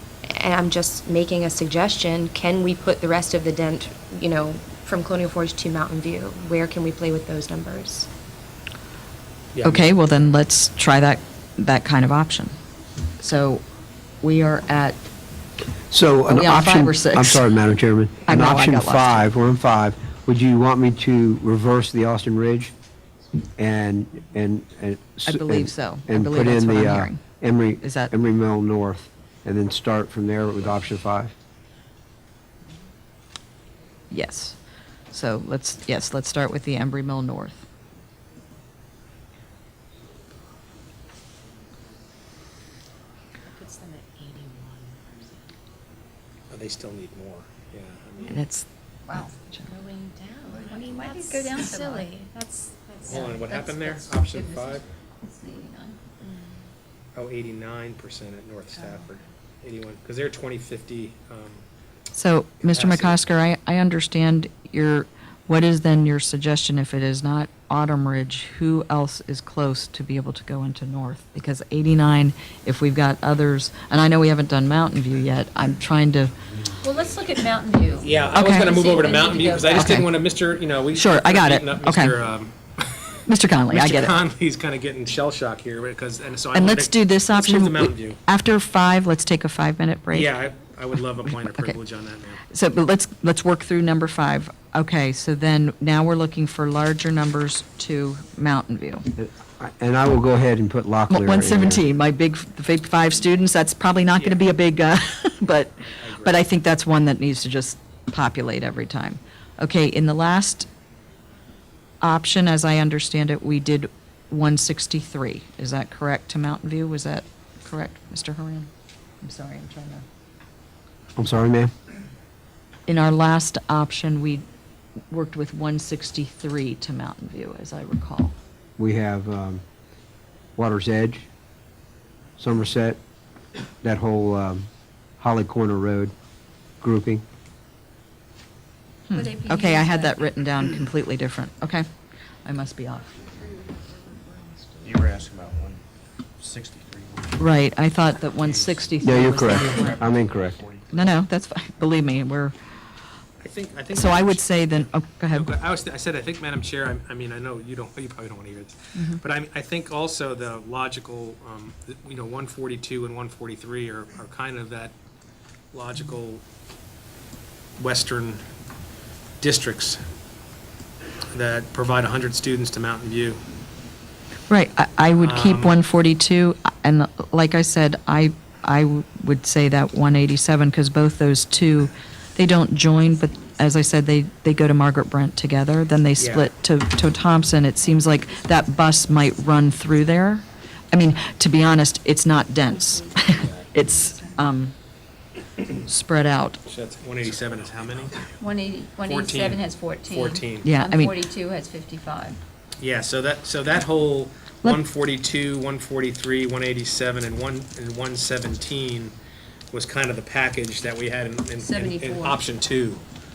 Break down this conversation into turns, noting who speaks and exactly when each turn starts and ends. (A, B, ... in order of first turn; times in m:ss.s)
0:00.3-0:08.1 A
0:09.5-0:09.9 B
0:09.6-0:12.5 C
0:13.2-0:13.6 C
0:14.2-0:15.0 C
0:15.9-0:22.7 D
0:16.3-0:17.4 C
0:18.2-0:19.2 C
0:23.6-0:31.3 D
0:25.2-0:27.2 C
0:27.8-0:28.1 C
0:34.1-0:34.6 C
0:35.1-0:37.7 C
0:43.5-0:45.4 A
0:46.5-0:48.4 B
0:48.3-0:49.7 C
0:49.2-0:54.2 A
0:50.6-0:52.2 E
0:53.0-0:54.8 B
0:53.0-0:53.6 E
0:54.2-0:56.0 E
0:56.2-0:56.6 A
0:57.1-1:01.6 B
1:02.1-1:16.3 C
1:02.6-1:03.2 B
1:16.8-1:20.0 E
1:18.0-1:23.1 B
1:18.3-1:18.7 C
1:19.7-1:20.1 C
1:20.9-1:22.2 C
1:23.3-1:24.2 C
1:23.7-1:28.2 B
1:26.5-1:30.3 C
1:30.1-1:32.4 B
1:31.2-1:31.8 C
1:32.5-1:39.1 C
1:39.2-1:41.8 D
1:41.1-1:50.7 C
1:44.2-1:44.5 B
1:45.8-1:46.5 B
1:52.0-1:58.7 C
1:59.2-2:00.0 C
2:01.2-2:01.7 D
2:02.9-2:04.4 C
2:05.1-2:08.3 C
2:08.8-2:09.6 D
2:10.6-2:11.3 D
2:12.4-2:13.0 D
2:13.8-2:14.7 D
2:15.2-2:16.1 D
2:16.8-2:17.2 D
2:19.1-2:21.8 C
2:19.1-2:20.2 E
2:22.4-2:23.2 C
2:24.8-2:25.8 F
2:26.4-2:27.5 F
2:27.4-2:30.0 C
2:28.4-2:31.2 F
2:29.0-2:30.6 D
2:30.9-2:32.5 C
2:33.4-2:44.9 B
2:33.9-2:35.5 C
2:45.7-2:46.4 B
2:47.8-2:48.4 B
2:49.4-2:50.0 B
2:51.3-2:53.4 B
2:54.5-3:14.7 C
2:55.2-2:55.8 B
3:06.2-3:06.5 B
3:15.8-3:16.6 C
3:16.7-3:18.2 B
3:18.4-3:22.4 E
3:19.0-3:20.7 B
3:20.6-3:21.2 C
3:22.8-3:29.1 B
3:29.7-3:33.0 B
3:31.6-3:32.4 E